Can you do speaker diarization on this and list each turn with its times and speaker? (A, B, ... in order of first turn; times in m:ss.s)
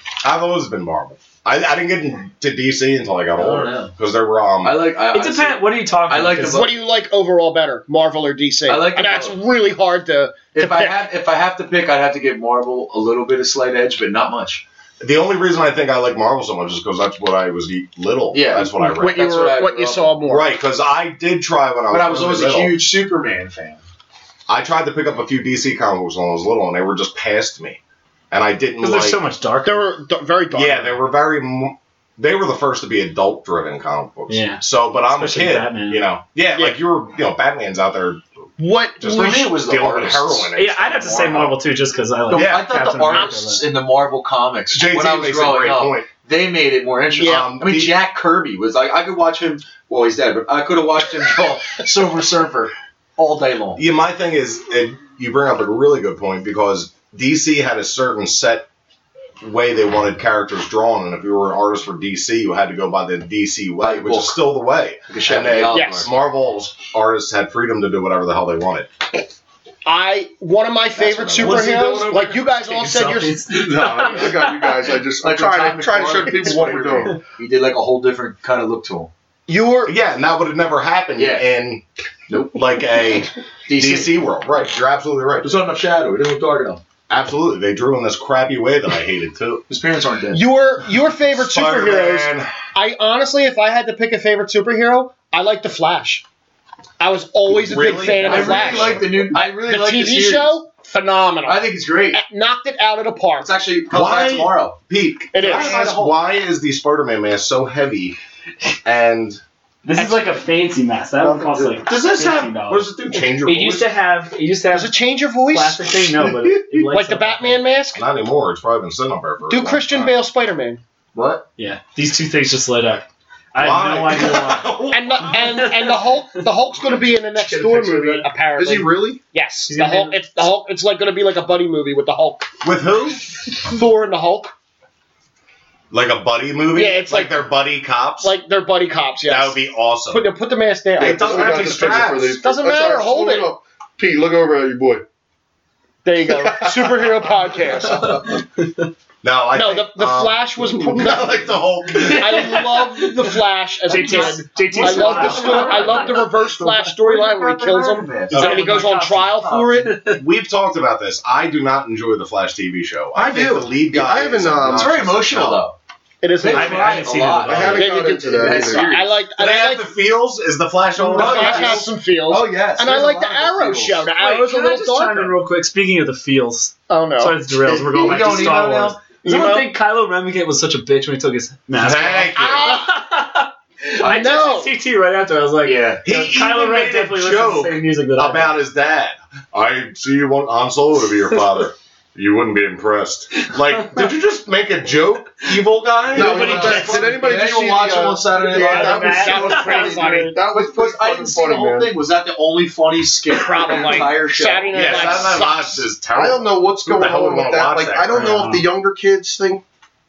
0:00.2-0:04.8 A
0:03.4-0:03.9 B
0:04.6-0:06.8 B
0:05.1-0:06.7 C
0:06.4-0:11.0 D
0:08.7-0:09.4 B
0:10.5-0:14.6 B
0:15.0-0:19.3 A
0:18.3-0:20.1 B
0:18.8-0:20.5 D
0:20.3-0:22.8 A
0:21.9-0:23.8 B
0:24.5-0:27.8 A
0:28.3-0:29.2 A
0:28.8-0:29.9 C
0:29.6-0:31.0 D
0:30.5-0:38.2 A
0:34.3-0:36.1 C
0:38.6-0:39.6 D
0:39.0-0:41.6 A
0:39.1-0:40.5 B
0:40.6-0:43.6 C
0:42.3-0:53.8 B
0:42.3-0:42.7 A
0:44.7-0:46.1 A
0:47.2-0:47.5 D
0:47.2-0:48.0 A
0:53.8-0:58.7 A
0:59.4-1:08.9 A
1:03.8-1:04.4 B
1:05.1-1:06.1 B
1:05.7-1:06.1 D
1:09.8-1:13.4 D
1:11.0-1:12.0 B
1:11.4-1:11.7 E
1:12.1-1:15.0 C
1:13.5-1:17.2 E
1:15.2-1:19.1 B
1:19.5-1:19.9 D
1:19.9-1:21.8 A
1:21.2-1:21.5 B
1:22.3-1:22.6 B
1:22.5-1:25.6 A
1:23.7-1:24.1 B
1:25.4-1:26.8 B
1:27.1-1:29.6 A
1:29.7-1:30.4 B
1:30.3-1:36.2 D
1:31.3-1:32.6 A
1:37.0-1:43.5 D
1:37.4-1:39.4 A
1:38.2-1:40.6 B
1:41.4-1:42.2 B
1:43.4-1:44.8 B
1:43.9-1:48.2 A
1:45.3-1:46.2 D
1:48.8-1:49.4 A
1:49.8-1:57.6 C
1:51.3-1:53.9 A
1:54.7-1:56.2 D
1:56.8-1:58.0 D
1:57.9-2:00.1 A
1:59.5-2:00.8 D
2:01.2-2:01.4 B
2:01.6-2:06.4 C
2:03.6-2:05.4 A
2:04.9-2:12.5 D
2:07.4-2:08.3 C
2:08.6-2:09.2 E
2:09.7-2:10.2 C
2:12.6-2:13.3 A
2:13.5-2:14.5 D
2:15.9-2:18.3 A
2:16.7-2:17.4 D
2:18.2-2:23.5 D
2:19.3-2:20.2 A
2:21.0-2:22.4 A
2:21.0-2:25.0 E
2:26.0-2:28.3 D
2:26.3-2:27.2 E
2:29.2-2:32.6 A
2:29.5-2:31.4 D
2:31.9-2:36.8 C
2:32.1-2:40.0 D
2:34.2-2:36.3 B
2:36.9-2:39.9 B
2:38.3-2:38.8 A
2:38.3-2:40.2 C
2:40.1-2:45.6 A
2:43.2-2:43.6 B
2:43.2-2:45.0 E
2:44.7-2:45.8 B
2:46.2-2:47.1 D
2:46.4-2:49.2 B
2:46.5-2:47.9 C
2:47.4-2:49.0 E
2:47.7-2:49.9 D
2:49.4-2:51.9 A
2:51.0-2:55.3 D
2:51.1-2:54.1 B
2:54.2-3:08.6 C
2:56.9-2:57.4 D
2:57.7-2:59.0 B
2:59.2-2:59.7 D
3:01.7-3:02.7 A
3:02.4-3:02.9 D
3:04.0-3:04.6 B
3:04.0-3:04.7 D
3:05.6-3:06.0 B
3:06.0-3:17.0 A
3:13.5-3:14.1 C
3:16.1-3:21.9 E
3:16.2-3:17.2 C
3:16.2-3:19.4 B
3:18.5-3:20.4 C
3:18.5-3:20.4 D
3:20.5-3:25.4 B
3:23.3-3:25.9 D
3:24.7-3:28.2 A
3:26.2-3:29.6 E
3:28.1-3:28.7 C